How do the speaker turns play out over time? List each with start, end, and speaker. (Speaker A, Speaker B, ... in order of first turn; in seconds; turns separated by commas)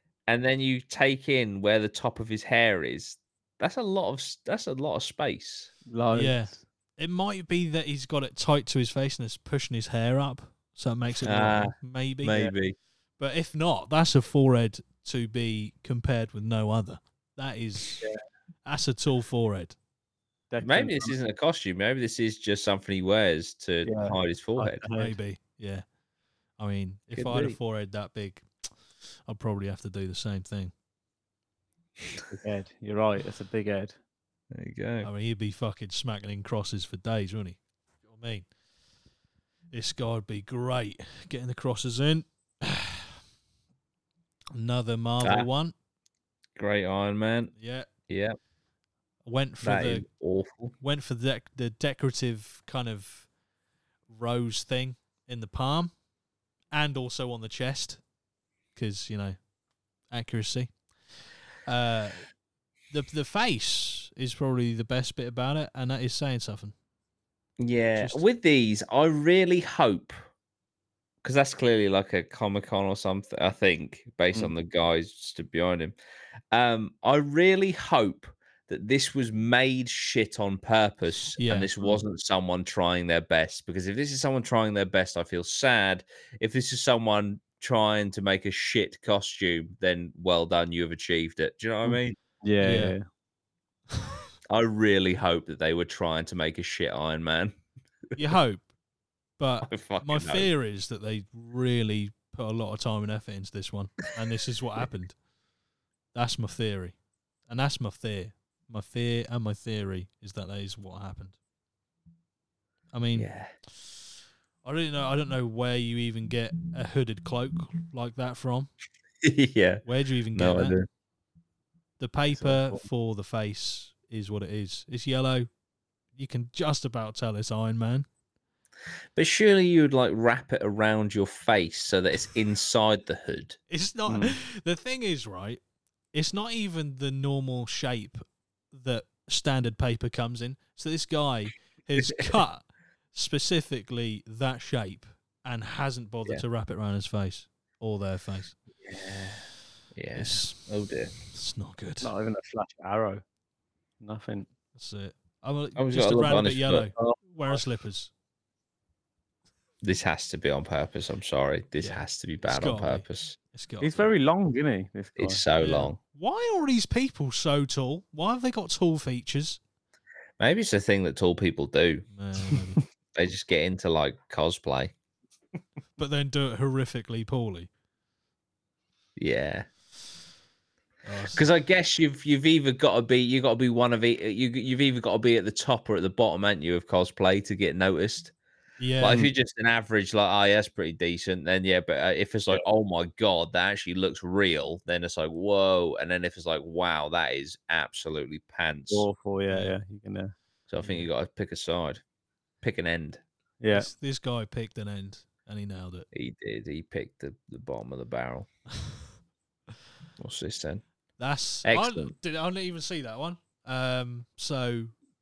Speaker A: 0.3-5.7, Speaker B: 5.9-6.6, Speaker C: 6.1-12.5, Speaker A: 11.2-12.8, Speaker C: 13.2-18.1, Speaker C: 18.7-19.8, Speaker B: 20.5-21.1, Speaker A: 20.6-24.8, Speaker B: 23.8-25.2, Speaker C: 24.9-25.8, Speaker C: 26.6-28.5, Speaker A: 27.1-27.6, Speaker C: 29.3-30.7, Speaker B: 32.3-34.0, Speaker A: 34.5-35.1, Speaker C: 35.0-38.5, Speaker C: 39.7-43.1, Speaker C: 44.5-45.7, Speaker A: 45.2-45.5, Speaker A: 46.6-47.5, Speaker C: 47.6-47.9, Speaker A: 48.1-48.4, Speaker C: 49.3-50.0, Speaker A: 49.6-50.8, Speaker C: 50.8-53.3, Speaker C: 54.1-55.9, Speaker C: 56.7-58.0, Speaker C: 58.8-59.4, Speaker C: 60.1-60.7, Speaker C: 61.7-62.3, Speaker C: 62.9-66.7, Speaker A: 67.6-70.2, Speaker C: 68.0-68.2, Speaker A: 71.2-76.0, Speaker A: 76.5-92.2, Speaker C: 81.4-81.7, Speaker B: 91.8-93.0, Speaker C: 92.6-93.0, Speaker A: 94.5-97.6, Speaker C: 98.2-98.7, Speaker C: 99.4-105.2, Speaker A: 99.6-100.5, Speaker C: 106.1-107.0, Speaker C: 107.5-111.4, Speaker C: 112.9-113.3, Speaker A: 113.2-113.5, Speaker C: 114.6-118.7, Speaker A: 119.2-119.8, Speaker C: 119.8-120.8, Speaker A: 120.3-120.9, Speaker C: 122.0-125.5, Speaker C: 126.2-128.1, Speaker A: 129.2-133.6, Speaker C: 133.7-135.6, Speaker B: 134.1-134.4, Speaker C: 136.1-148.6, Speaker A: 142.0-142.4, Speaker A: 148.8-151.1, Speaker C: 150.1-150.6, Speaker C: 151.3-152.1, Speaker B: 152.0-153.2, Speaker B: 154.0-154.5, Speaker C: 154.8-158.1, Speaker A: 155.8-157.6, Speaker A: 159.8-163.4, Speaker C: 161.8-164.1, Speaker B: 163.8-165.4, Speaker A: 165.2-166.0, Speaker C: 165.6-169.6, Speaker A: 170.4-172.1, Speaker C: 172.1-172.8, Speaker A: 173.2-174.9, Speaker C: 176.0-177.7, Speaker A: 179.2-179.7, Speaker C: 181.1-181.4, Speaker A: 181.3-188.3, Speaker C: 188.8-189.3, Speaker A: 189.0-199.1, Speaker B: 198.9-200.3, Speaker C: 199.5-199.8, Speaker A: 200.7-202.0, Speaker A: 202.6-203.2, Speaker B: 203.6-203.9, Speaker C: 203.7-206.1, Speaker A: 206.1-208.5, Speaker A: 210.2-210.8, Speaker C: 211.2-214.9, Speaker A: 211.7-212.1